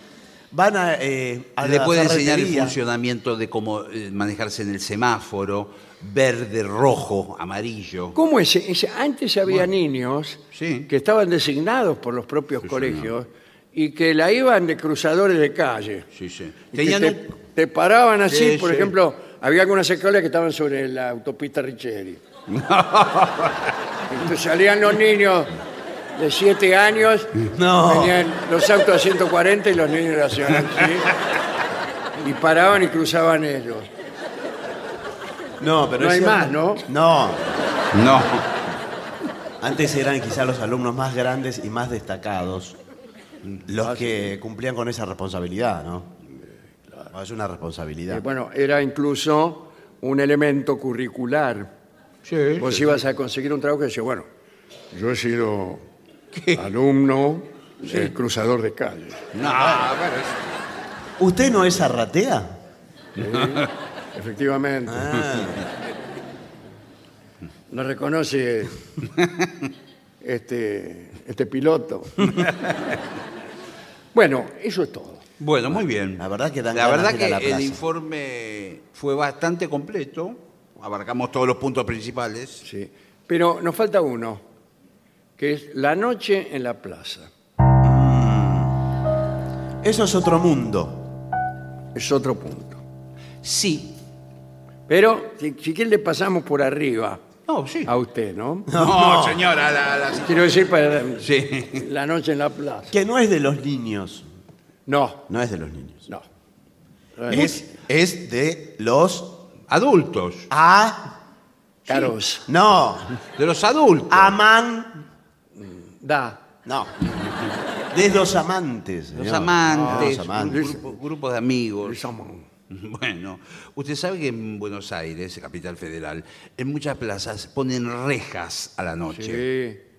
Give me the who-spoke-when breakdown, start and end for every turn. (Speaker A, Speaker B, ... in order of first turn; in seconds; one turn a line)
Speaker A: 0.5-2.8
Speaker B: 1.6-8.2
Speaker C: 8.2-16.1
Speaker B: 10.5-10.9
Speaker B: 12.7-13.1
Speaker B: 16.1-17.3
Speaker C: 16.7-22.2
Speaker B: 18.3-18.9
Speaker B: 22.5-23.7
Speaker C: 24.1-25.5
Speaker C: 26.1-31.1
Speaker A: 27.5-28.2
Speaker C: 32.2-33.9
Speaker A: 35.6-37.5
Speaker C: 36.0-36.9
Speaker B: 37.9-38.5
Speaker A: 39.6-42.8
Speaker A: 43.7-46.1
Speaker C: 43.8-44.3
Speaker A: 47.1-48.2
Speaker C: 48.1-51.7
Speaker B: 52.2-53.0
Speaker C: 52.6-54.3
Speaker C: 54.9-55.9
Speaker C: 56.5-59.3
Speaker B: 59.3-60.4
Speaker A: 59.4-59.9
Speaker A: 61.2-62.6
Speaker C: 63.2-65.2
Speaker B: 63.3-63.6
Speaker A: 64.9-65.6
Speaker C: 67.7-68.8
Speaker B: 69.2-69.5
Speaker C: 70.2-72.5
Speaker C: 74.1-75.3
Speaker B: 75.4-82.6
Speaker A: 76.2-77.8
Speaker C: 82.6-84.4
Speaker C: 85.4-87.3
Speaker A: 87.8-88.8
Speaker A: 89.8-91.1
Speaker C: 92.0-92.8
Speaker B: 93.4-94.0
Speaker C: 94.9-97.2
Speaker B: 97.5-97.9
Speaker C: 97.9-98.7
Speaker A: 98.7-99.5
Speaker B: 98.7-100.6
Speaker C: 100.2-103.0
Speaker B: 101.2-101.8
Speaker A: 102.9-104.3
Speaker C: 104.9-105.2
Speaker A: 105.3-106.1
Speaker C: 107.2-107.5
Speaker A: 107.3-109.4
Speaker B: 109.7-110.5
Speaker A: 110.5-111.1
Speaker C: 111.9-112.5
Speaker A: 112.5-113.2
Speaker B: 113.4-114.3
Speaker A: 114.1-115.0
Speaker C: 115.6-116.5
Speaker A: 116.7-117.0
Speaker A: 117.9-120.7
Speaker B: 119.2-122.1
Speaker C: 119.7-120.9
Speaker C: 121.8-122.5
Speaker B: 122.7-129.4
Speaker C: 129.1-129.8